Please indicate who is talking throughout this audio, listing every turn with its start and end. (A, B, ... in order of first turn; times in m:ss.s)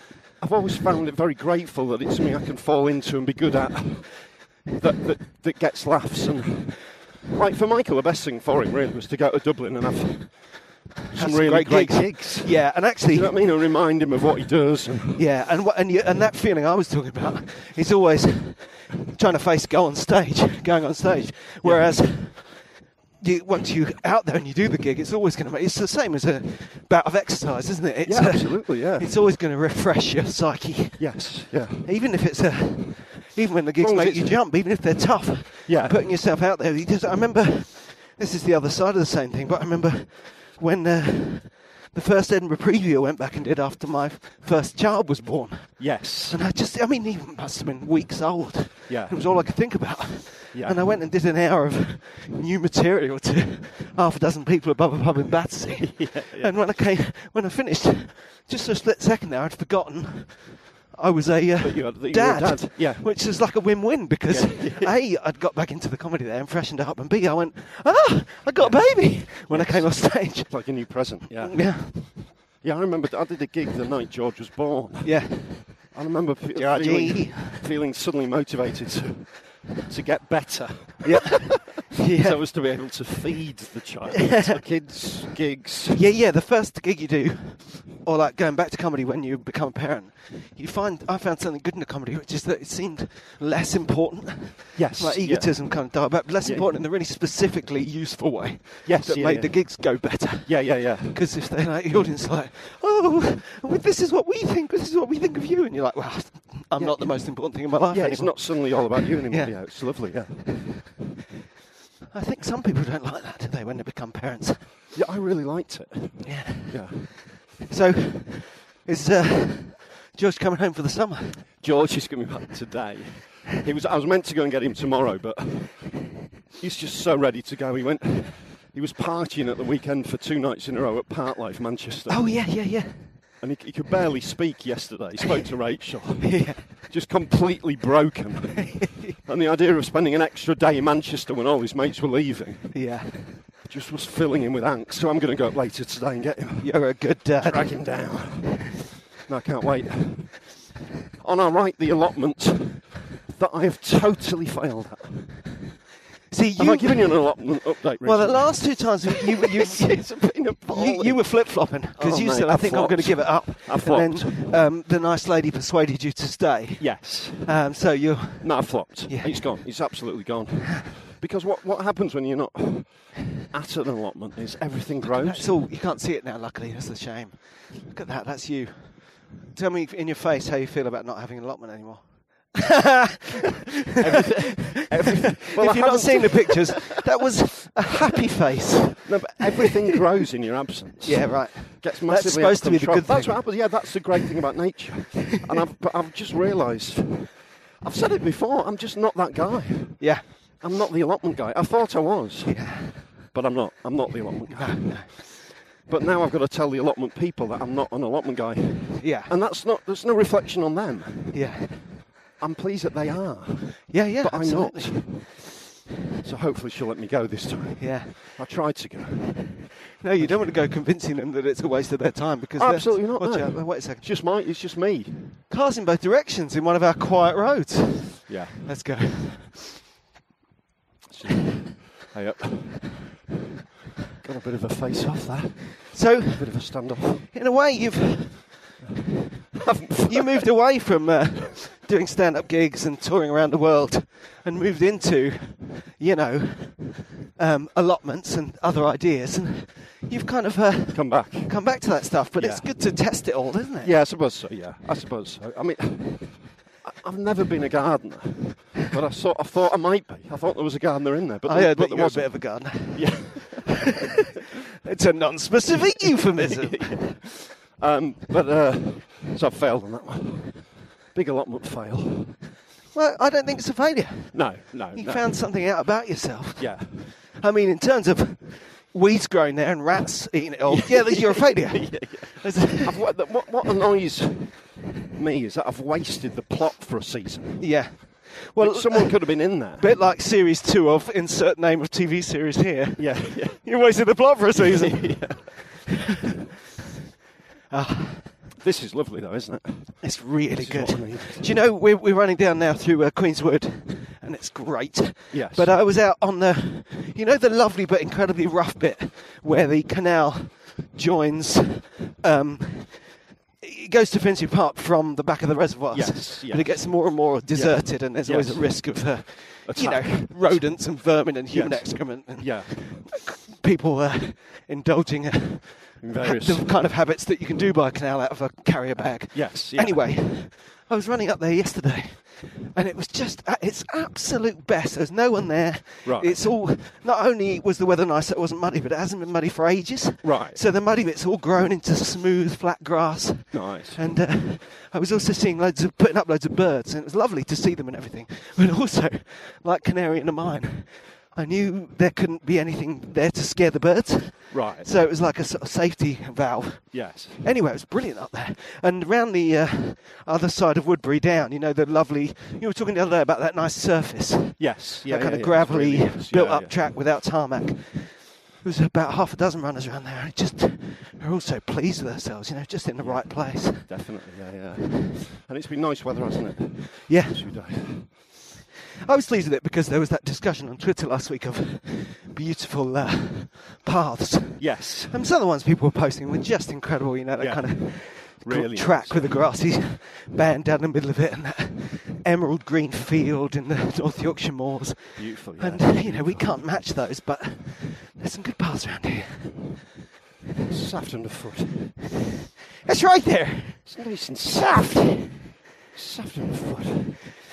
0:00.4-0:15.2 A
0:11.1-0:13.3 B
0:15.1-1:12.2 B
0:21.6-0:22.1 A
0:28.0-0:29.1 A
0:31.0-0:31.9 A
0:33.8-0:34.4 A
0:35.6-0:36.0 A
0:45.8-0:46.4 A
0:48.9-0:49.8 A
0:50.5-0:50.9 A
0:55.8-0:56.5 A
1:01.6-1:03.4 A
1:04.3-1:04.9 A
1:08.6-1:26.0 A
1:15.0-1:15.9 B
1:16.5-1:17.6 B
1:21.0-1:22.5 B
1:25.9-1:50.2 B
1:34.7-1:36.7 A
1:38.8-1:41.2 A
1:46.8-1:50.8 A
1:52.1-1:54.7 B
1:54.9-1:57.2 A
1:56.2-2:01.5 B
2:01.6-2:12.5 A
2:12.1-2:13.2 B
2:13.4-2:22.9 A
2:16.2-2:16.6 B
2:22.7-2:23.4 B
2:23.6-2:30.6 A
2:26.6-2:28.2 B
2:31.2-2:35.5 A
2:36.3-2:50.0 B
2:36.6-2:44.6 A
2:46.8-2:47.9 A
2:48.4-2:55.6 A
2:55.0-3:03.4 B
3:04.0-3:06.9 A
3:04.2-3:10.0 B
3:09.0-3:35.5 A
3:11.0-3:13.9 B
3:20.0-3:20.3 B
3:22.4-3:23.2 B
3:24.5-3:25.2 B
3:29.0-3:29.3 B
3:31.3-3:32.0 B
3:33.9-3:35.2 B
3:36.2-3:40.6 A
3:37.8-3:38.4 B
3:40.0-3:44.1 B
3:42.6-3:45.4 A
3:45.5-3:49.8 B
3:48.3-3:48.7 A
3:51.1-3:53.1 A
3:54.2-3:57.3 A
3:55.9-3:58.6 B
3:59.5-4:00.4 A
4:00.1-4:14.0 B
4:10.9-4:13.1 A
4:13.8-4:24.1 A
4:21.4-4:23.9 B
4:24.8-4:27.2 B
4:26.4-4:32.4 A
4:32.9-4:43.1 B
4:34.3-4:35.5 A
4:36.6-4:37.1 A
4:40.7-4:50.0 A
4:47.6-4:55.6 B
4:53.0-4:53.9 A
4:54.5-4:55.5 A
4:57.7-4:58.4 B
4:58.6-5:01.6 A
5:00.0-6:14.0 B
5:05.3-5:05.8 A
5:15.9-5:23.2 A
5:26.0-5:26.7 A
5:29.3-5:30.1 A
5:36.0-5:36.6 A
5:40.2-5:40.6 A
5:43.5-5:44.0 A
5:54.5-5:54.9 A
5:56.9-5:57.4 A
6:04.6-6:06.9 A
6:13.0-6:18.1 A
6:17.1-6:18.2 B
6:19.0-6:39.6 B
6:24.6-6:25.2 A
6:27.4-6:29.4 A
6:35.2-6:36.8 A
6:40.7-6:41.9 A
6:42.8-6:43.9 B
6:43.8-6:45.3 A
6:44.5-6:45.3 B
6:45.9-6:47.2 A